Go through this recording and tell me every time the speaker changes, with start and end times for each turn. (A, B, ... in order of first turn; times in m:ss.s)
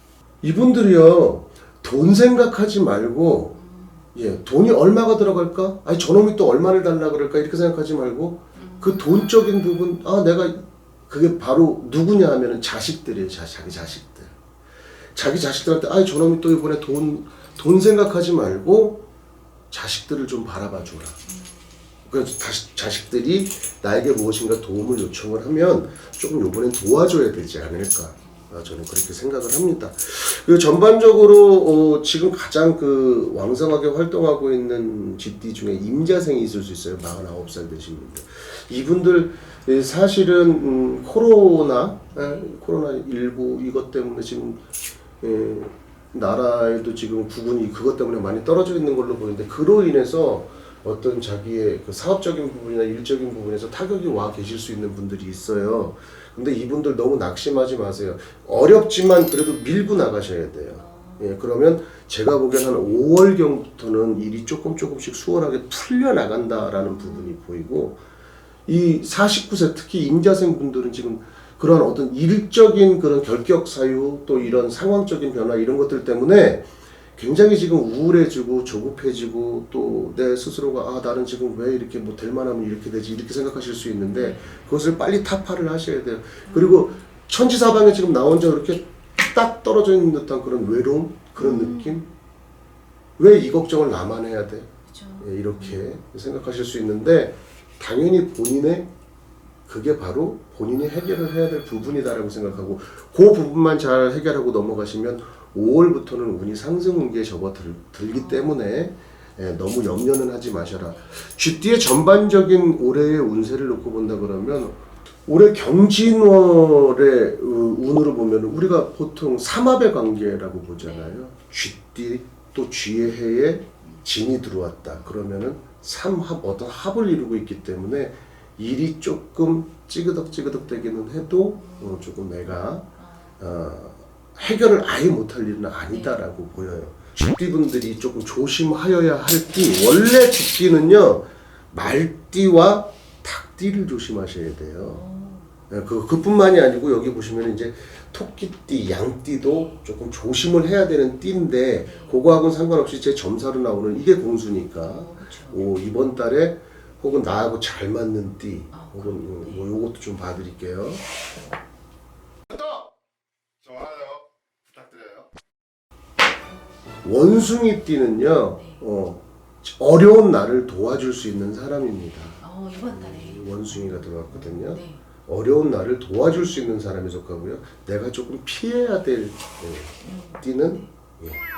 0:00.4-0:03.6 A
0:03.5-0:04.1 B
0:04.1-0:14.3 A
0:08.5-0:09.5 B
0:15.1-0:19.0 A
0:19.7-0:21.2 A
0:21.2-0:21.9 B
0:22.0-0:44.6 A
0:28.2-0:28.7 B
0:42.1-0:42.5 B
0:45.2-1:08.0 A
0:55.6-0:55.9 B
1:00.7-1:01.4 B
1:06.8-1:07.4 B
1:08.6-1:32.0 A
1:24.2-1:24.5 B
1:26.5-1:27.0 B
1:31.4-1:32.1 B
1:33.2-1:34.7 A
1:34.9-1:35.9 B
1:35.2-1:38.9 A
1:39.7-2:12.9 A
1:48.1-1:48.6 B
1:50.8-1:51.2 B
2:00.8-2:01.2 B
2:04.9-2:05.2 B
2:11.6-2:13.4 B
2:13.4-2:25.0 A
2:15.9-2:16.2 B
2:24.8-2:25.5 B
2:25.7-2:41.0 A
2:29.4-2:29.8 B
2:31.8-2:32.2 B
2:34.8-2:35.6 B
2:38.7-2:39.7 B
2:43.7-2:44.2 A
2:44.8-2:45.2 A
2:47.0-3:01.4 A
2:48.6-2:48.8 B
2:52.4-2:55.0 B
3:00.0-3:00.9 B